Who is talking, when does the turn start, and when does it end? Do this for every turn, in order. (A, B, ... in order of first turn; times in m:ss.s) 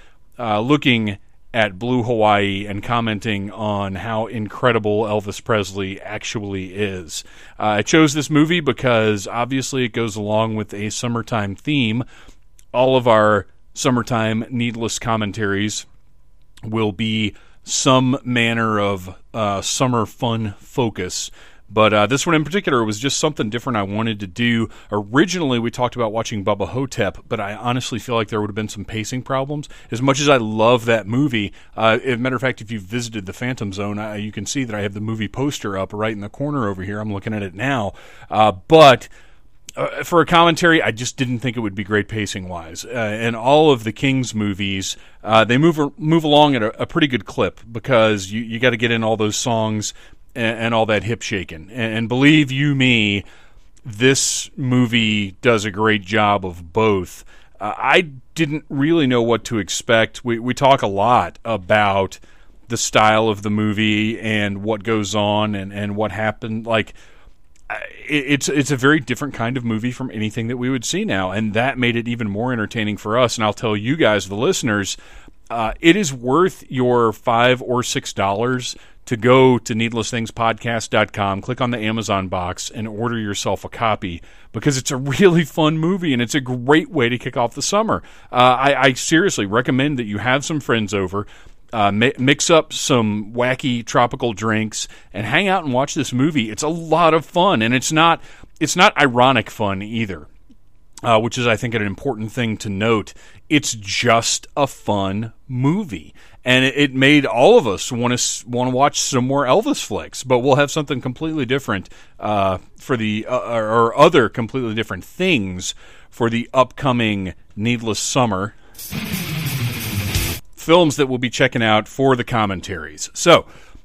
0:00.4-0:12.0 A
0:12.7-0:15.8 A
0:16.6-0:39.1 A
0:39.8-0:53.2 A
0:53.8-1:06.9 A
1:07.7-1:15.0 A
1:15.5-1:40.3 A
1:41.0-1:58.5 A
2:00.6-2:03.5 A